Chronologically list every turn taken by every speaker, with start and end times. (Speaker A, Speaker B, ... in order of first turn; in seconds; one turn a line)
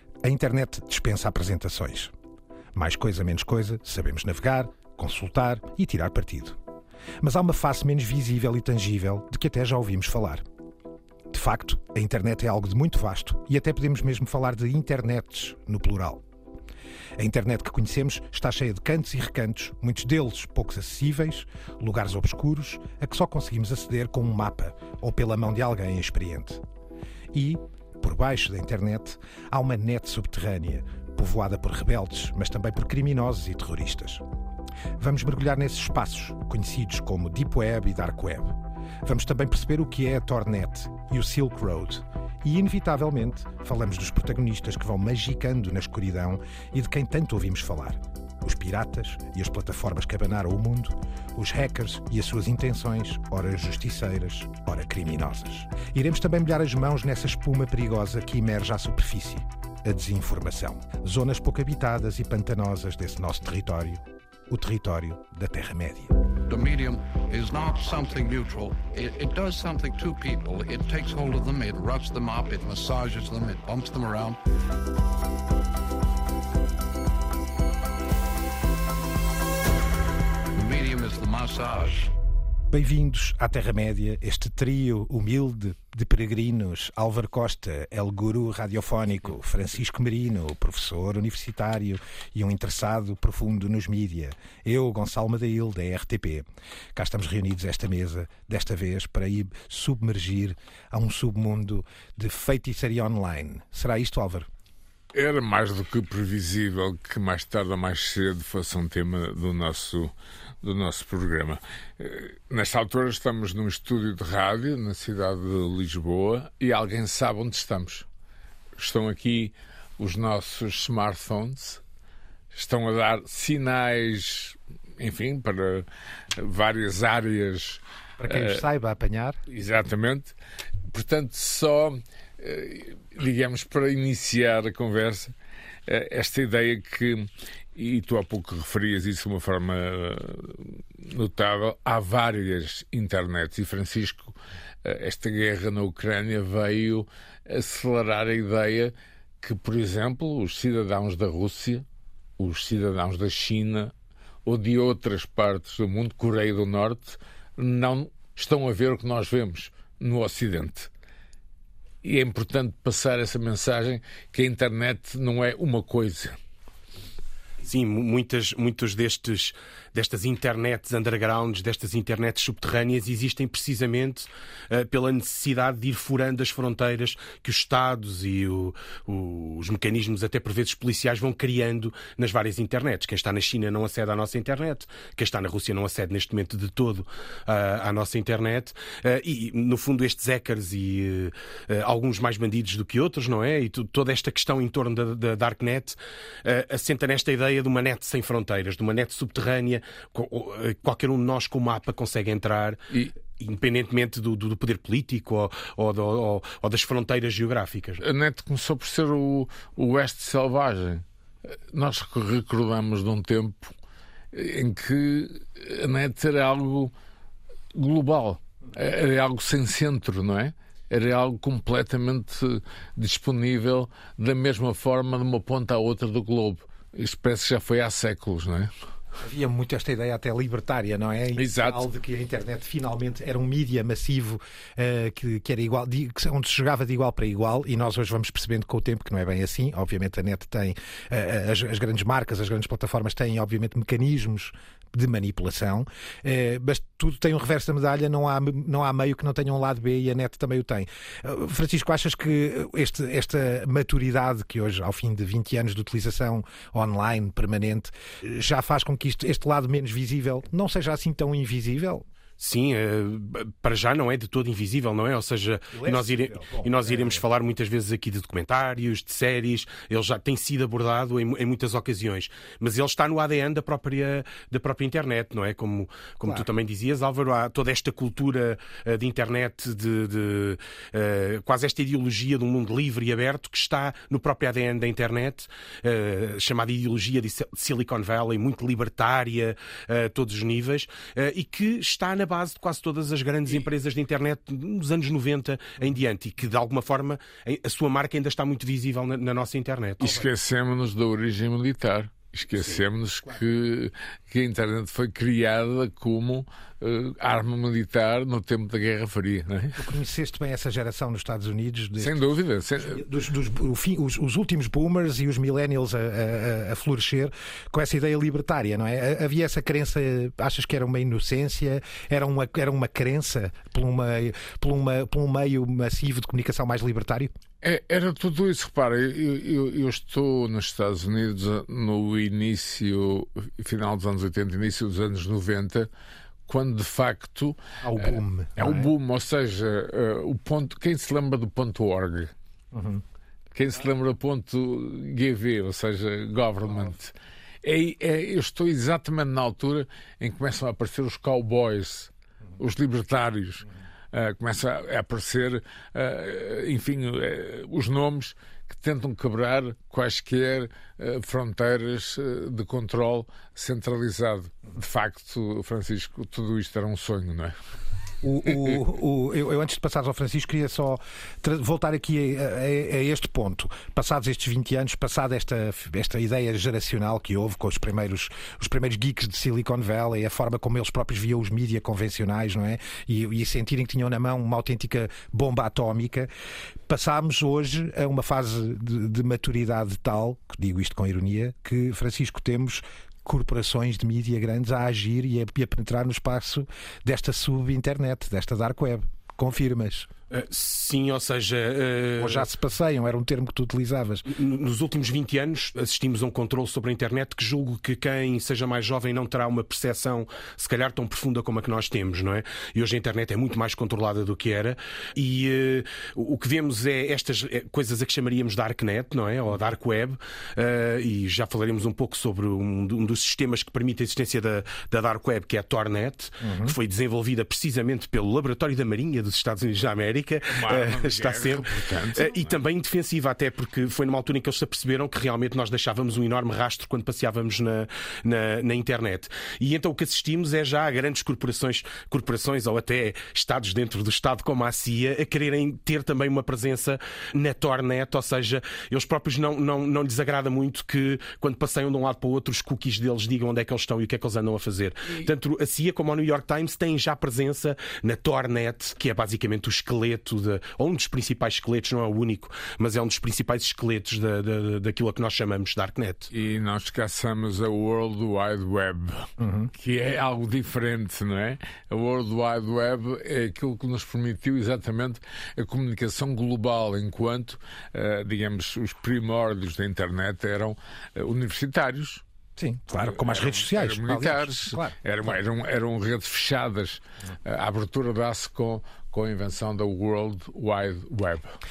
Speaker A: 0.2-2.1
Speaker A: 2.8-6.6
Speaker A: 7.2-10.4
Speaker A: 11.3-16.2
Speaker A: 17.2-26.6
Speaker A: 27.3-34.2
Speaker A: 35.0-66.2
Speaker B: 66.5-74.4
Speaker B: 80.5-82.1
Speaker A: 82.7-104.5
Speaker C: 105.1-118.1
Speaker C: 118.8-121.8
Speaker C: 122.5-128.6
Speaker A: 128.2-129.4
Speaker C: 129.5-130.3
Speaker C: 130.9-135.3
Speaker C: 135.9-151.8
Speaker C: 152.4-153.9
Speaker C: 154.4-160.9
Speaker C: 162.0-166.4
Speaker D: 167.6-202.8
Speaker D: 203.4-208.0
Speaker C: 208.0-213.7
Speaker C: 214.3-216.9
Speaker C: 217.8-228.7
Speaker A: 229.2-262.1
Speaker C: 231.4-231.8
Speaker D: 262.4-300.1
Speaker A: 265.7-267.2
Speaker C: 300.0-309.8
Speaker D: 302.6-302.8
Speaker A: 309.8-312.2
Speaker C: 312.0-313.0
Speaker A: 312.8-327.3
Speaker C: 327.6-335.9
Speaker C: 336.5-342.3
Speaker A: 337.8-338.9
Speaker A: 342.7-343.0
Speaker C: 343.5-367.6
Speaker A: 368.2-386.3
Speaker A: 386.9-400.1
Speaker D: 400.3-402.5
Speaker A: 402.2-404.3
Speaker D: 404.3-466.3
Speaker A: 426.4-426.8
Speaker C: 430.5-432.6
Speaker C: 466.3-482.2
Speaker A: 469.4-469.7
Speaker A: 482.6-485.3
Speaker C: 483.0-491.6